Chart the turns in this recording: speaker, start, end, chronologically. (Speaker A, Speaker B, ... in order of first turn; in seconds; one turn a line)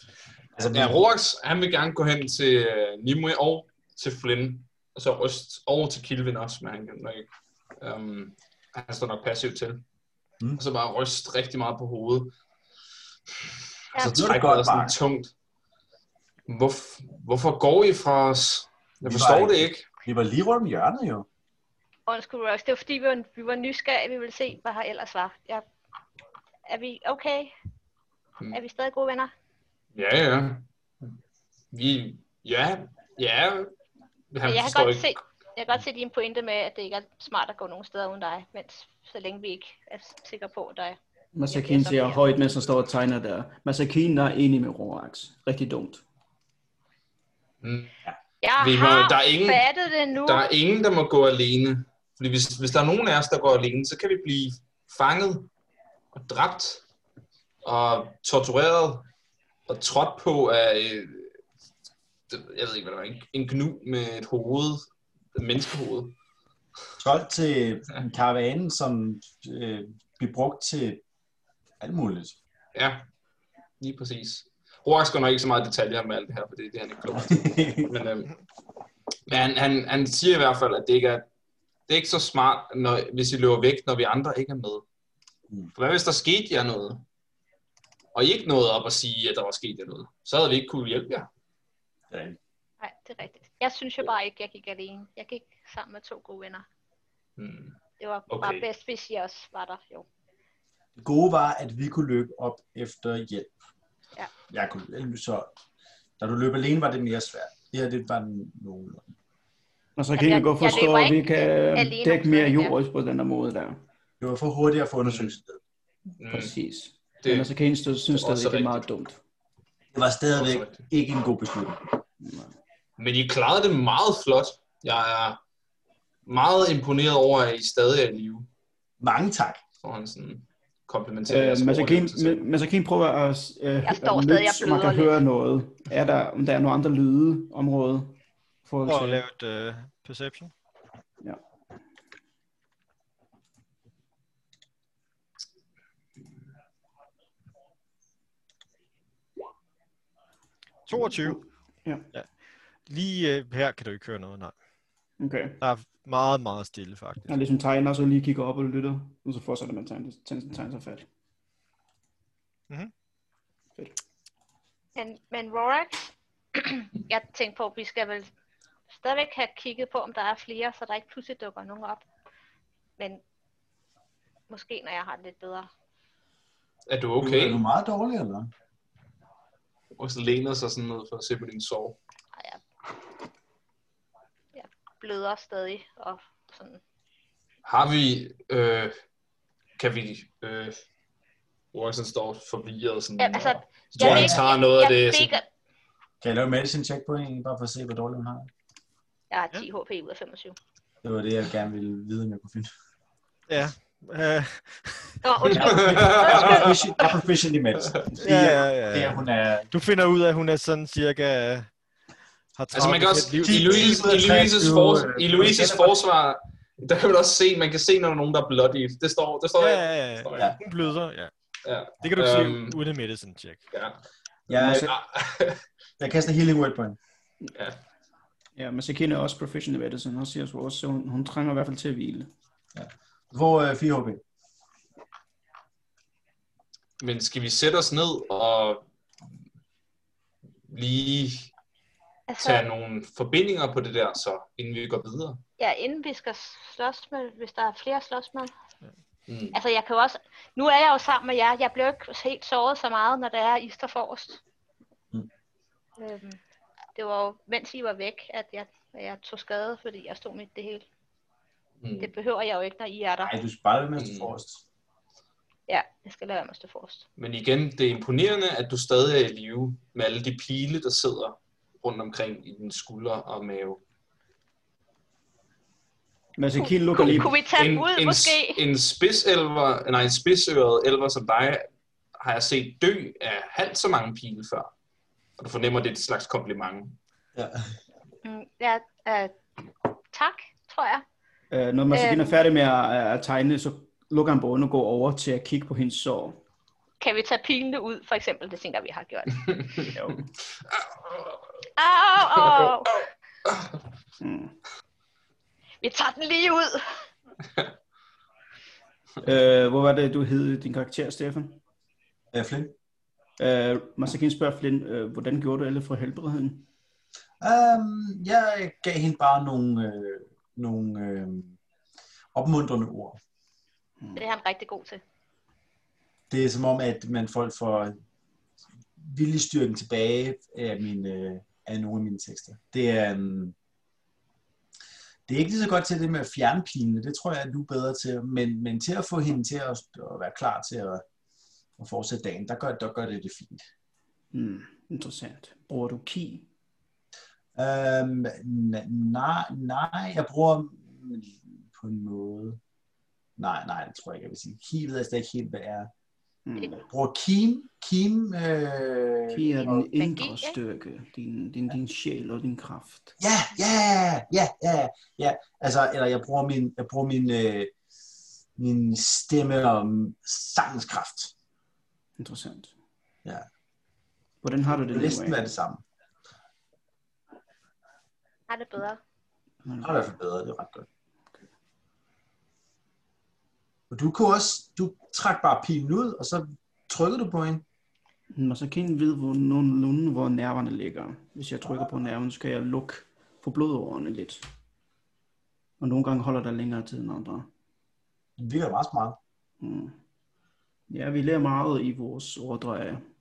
Speaker A: 0.6-1.0
Speaker B: 0.7-9.8
Speaker B: 10.6-12.3
Speaker B: 13.4-15.3
Speaker A: 14.0-14.9
Speaker B: 16.5-19.9
Speaker A: 19.1-21.3
Speaker C: 22.1-25.6
Speaker C: 26.7-27.5
Speaker C: 28.5-29.3
Speaker B: 29.9-31.1
Speaker B: 31.7-33.7
Speaker B: 34.3-35.2
Speaker C: 34.4-41.0
Speaker D: 41.3-46.0
Speaker C: 41.5-42.3
Speaker B: 47.6-47.9
Speaker C: 48.4-50.5
Speaker B: 48.6-49.7
Speaker B: 50.2-55.5
Speaker B: 56.1-56.8
Speaker B: 57.6-59.1
Speaker B: 59.7-61.3
Speaker B: 62.3-66.2
Speaker A: 67.0-71.0
Speaker A: 71.8-72.4
Speaker B: 72.7-73.0
Speaker B: 73.8-78.3
Speaker A: 77.1-77.9
Speaker B: 79.3-81.3
Speaker B: 81.9-84.8
Speaker B: 85.7-87.0
Speaker B: 88.1-91.3
Speaker A: 92.1-92.4
Speaker C: 92.8-96.6
Speaker B: 97.4-97.8
Speaker C: 98.0-100.0
Speaker B: 98.3-98.6
Speaker A: 101.0-103.5
Speaker A: 104.5-105.5
Speaker A: 106.2-109.1
Speaker D: 110.0-113.8
Speaker C: 110.2-112.8
Speaker A: 114.2-115.6
Speaker B: 115.1-115.3
Speaker B: 116.2-116.5
Speaker D: 116.3-119.2
Speaker B: 117.2-117.5
Speaker B: 118.1-118.8
Speaker A: 119.9-121.8
Speaker B: 120.3-120.9
Speaker D: 122.2-122.5
Speaker B: 123.0-125.4
Speaker B: 126.3-128.5
Speaker A: 129.0-129.6
Speaker B: 129.8-132.4
Speaker D: 131.3-139.2
Speaker C: 133.8-135.2
Speaker E: 138.8-140.5
Speaker E: 150.9-151.4
Speaker D: 151.0-152.1
Speaker E: 152.9-154.6
Speaker D: 155.2-155.6
Speaker E: 155.6-157.3
Speaker D: 157.3-161.1
Speaker C: 164.9-168.3
Speaker C: 168.9-172.1
Speaker C: 174.5-175.7
Speaker B: 176.9-177.6
Speaker A: 177.2-178.5
Speaker B: 179.9-182.0
Speaker C: 182.3-182.6
Speaker C: 184.5-186.8
Speaker B: 187.6-188.9
Speaker B: 189.8-190.8
Speaker B: 191.7-195.4
Speaker C: 193.2-195.4
Speaker A: 194.0-194.4
Speaker A: 196.2-198.5
Speaker C: 199.3-200.6
Speaker A: 201.0-202.7
Speaker E: 203.5-205.2
Speaker C: 205.2-207.1
Speaker B: 205.5-206.7
Speaker A: 205.5-209.7
Speaker E: 208.2-211.7
Speaker E: 212.6-214.2
Speaker B: 212.7-220.5
Speaker A: 213.4-216.0
Speaker E: 219.6-221.3
Speaker B: 221.6-222.8
Speaker E: 222.0-223.6
Speaker B: 223.7-225.6
Speaker A: 224.5-224.9
Speaker D: 224.6-224.9
Speaker A: 226.0-227.0
Speaker D: 228.6-232.3
Speaker A: 232.7-234.2
Speaker B: 237.0-238.8
Speaker B: 240.7-241.5
Speaker C: 242.3-242.7
Speaker B: 242.4-245.4
Speaker C: 245.6-248.5
Speaker B: 249.3-249.6
Speaker C: 249.5-254.4
Speaker C: 256.0-256.4
Speaker C: 256.9-260.9
Speaker B: 261.8-262.1
Speaker C: 262.0-263.3
Speaker A: 263.2-264.6
Speaker B: 264.0-264.3
Speaker C: 265.7-267.1
Speaker B: 267.2-273.8
Speaker D: 276.4-277.4
Speaker C: 276.6-278.6
Speaker B: 277.0-281.7
Speaker B: 282.2-284.7
Speaker B: 285.4-287.0
Speaker A: 287.4-287.6
Speaker C: 288.2-289.3
Speaker C: 290.1-291.0
Speaker D: 291.5-296.4
Speaker C: 291.9-292.4
Speaker C: 297.0-299.6
Speaker B: 299.5-299.9
Speaker D: 299.9-300.2
Speaker B: 300.7-301.3
Speaker C: 301.8-302.9
Speaker B: 302.4-302.7
Speaker B: 303.4-303.7
Speaker D: 304.2-304.6
Speaker C: 305.8-307.0
Speaker D: 309.2-311.6
Speaker A: 312.3-312.7
Speaker D: 313.4-316.7
Speaker A: 317.4-321.6
Speaker A: 322.3-323.2
Speaker C: 324.1-325.0
Speaker A: 326.3-327.9
Speaker A: 329.0-333.6
Speaker A: 335.3-341.1
Speaker A: 341.8-343.7
Speaker D: 344.3-346.5
Speaker A: 347.6-352.6
Speaker A: 353.4-355.9
Speaker D: 356.4-356.9
Speaker A: 356.8-359.9
Speaker D: 359.3-363.1
Speaker C: 359.6-360.6
Speaker A: 363.2-367.7
Speaker A: 368.6-371.3
Speaker D: 372.2-372.7
Speaker D: 374.4-375.5
Speaker A: 374.7-375.8
Speaker C: 378.5-379.0
Speaker D: 379.6-380.1
Speaker A: 379.8-380.9
Speaker A: 383.9-387.6
Speaker D: 388.3-394.4
Speaker D: 395.8-397.5
Speaker A: 398.4-399.2
Speaker D: 399.6-399.9
Speaker D: 400.9-403.0